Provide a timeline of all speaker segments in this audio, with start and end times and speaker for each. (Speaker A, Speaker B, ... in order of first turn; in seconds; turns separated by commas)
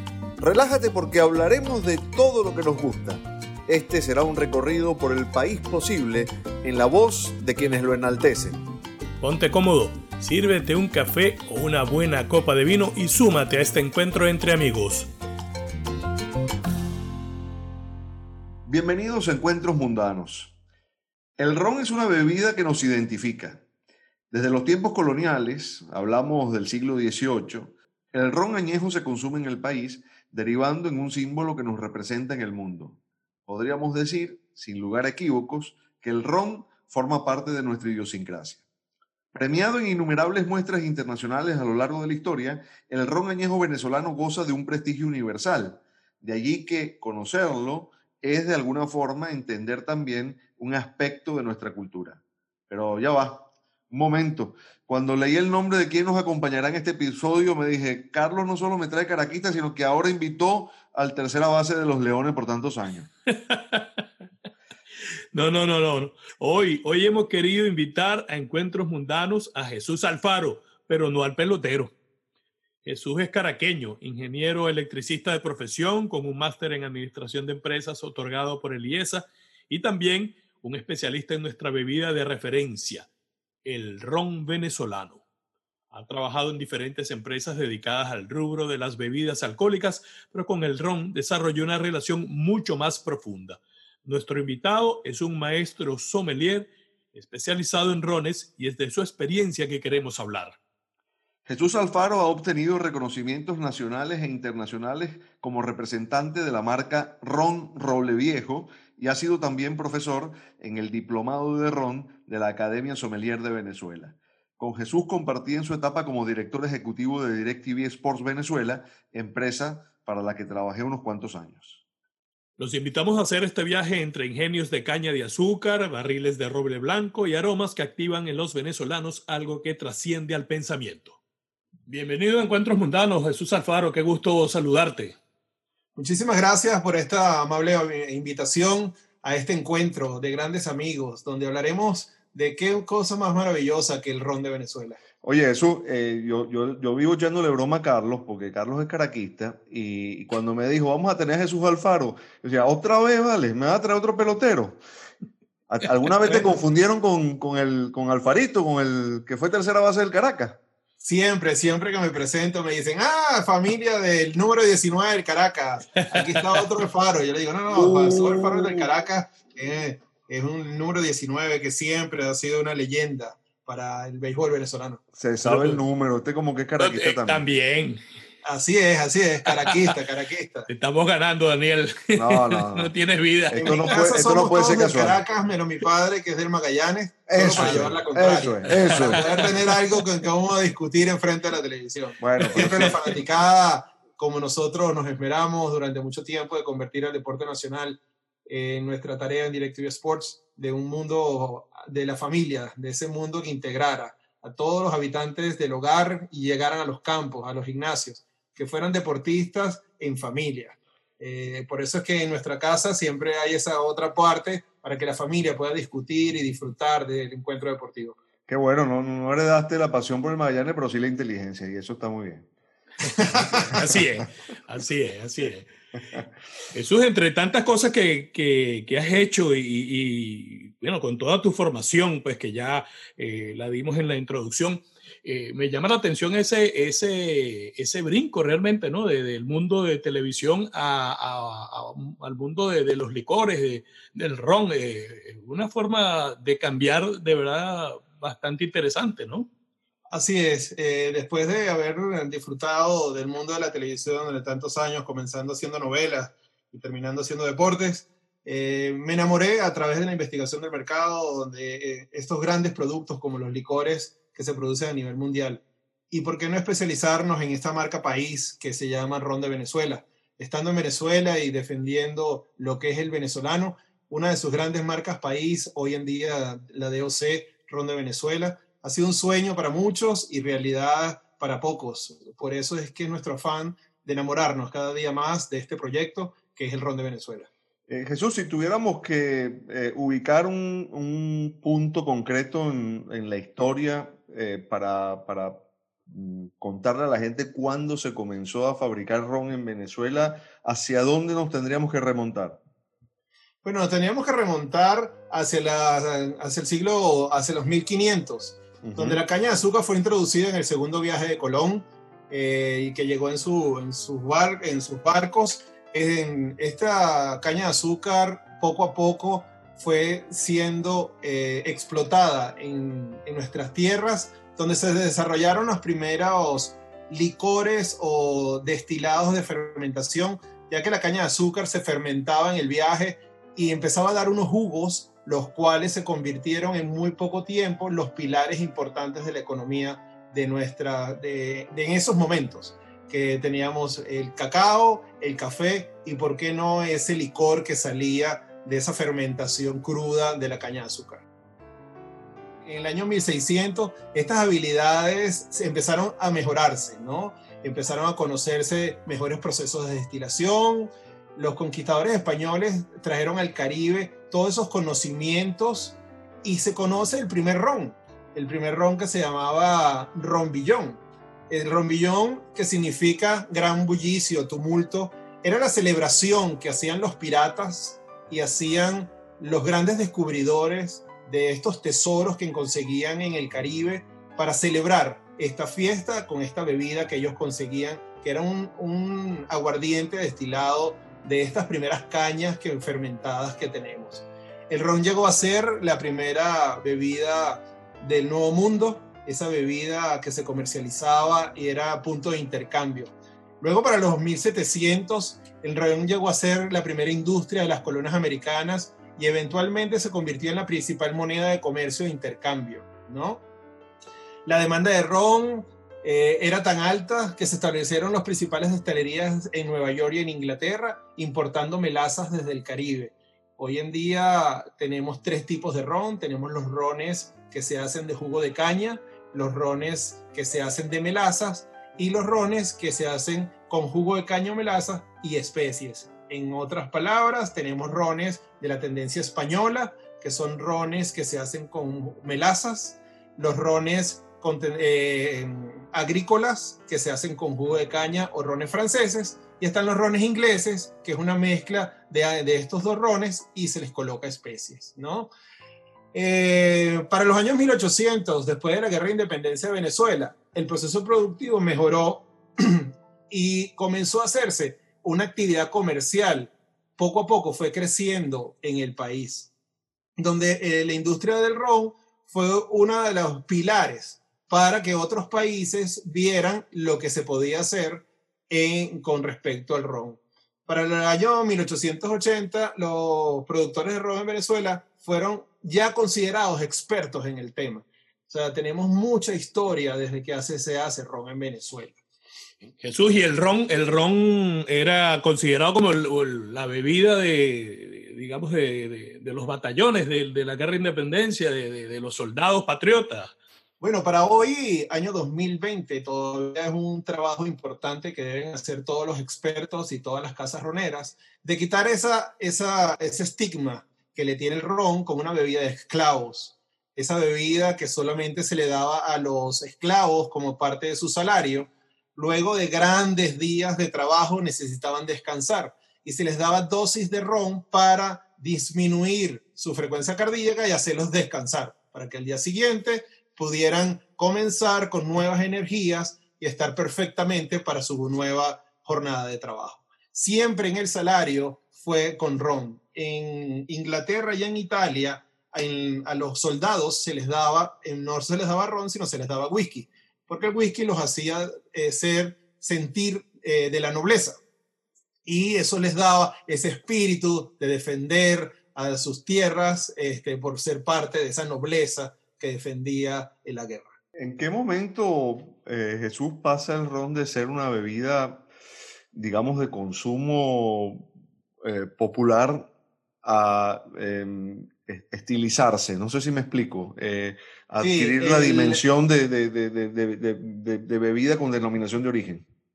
Speaker A: 0.4-8.6, Speaker B: 9.2-15.1, Speaker A: 18.7-20.5, Speaker A: 21.4-23.6, Speaker A: 24.3-38.6, Speaker A: 39.3-63.1, Speaker B: 63.3-64.0, Speaker B: 65.3-71.9, Speaker B: 72.8-83.1, Speaker B: 83.7-85.2, Speaker B: 85.9-100.6, Speaker A: 101.5-121.8, Speaker B: 122.6-131.2, Speaker B: 131.9-135.2, Speaker C: 136.0-145.0, Speaker A: 145.2-154.8, Speaker A: 155.7-160.6, Speaker C: 161.0-175.0, Speaker B: 166.1-166.6, Speaker A: 167.7-168.9, Speaker A: 175.2-177.4, Speaker B: 175.4-175.8, Speaker B: 176.8-178.0, Speaker C: 178.4-180.7, Speaker B: 180.7-184.0, Speaker A: 182.2-182.9, Speaker A: 183.5-185.2, Speaker C: 183.6-218.2, Speaker A: 187.3-189.5, Speaker B: 187.5-187.8, Speaker B: 188.7-189.5, Speaker A: 192.2-193.0, Speaker B: 192.4-192.9, Speaker A: 218.5-222.5, Speaker B: 223.1-225.7, Speaker C: 223.2-223.8, Speaker A: 223.3-223.9, Speaker B: 226.7-249.5, Speaker C: 250.1-287.5, Speaker A: 287.9-302.6, Speaker C: 303.6-351.2, Speaker A: 308.8-309.2, Speaker C: 352.6-413.4, Speaker C: 414.5-455.3, Speaker C: 456.1-469.5, Speaker C: 470.2-492.0, Speaker B: 492.8-503.3, Speaker C: 503.8-554.4, Speaker C: 555.3-564.0, Speaker A: 564.2-568.5, Speaker A: 569.1-571.1, Speaker A: 571.6-572.7, Speaker A: 573.2-582.5, Speaker C: 577.8-578.8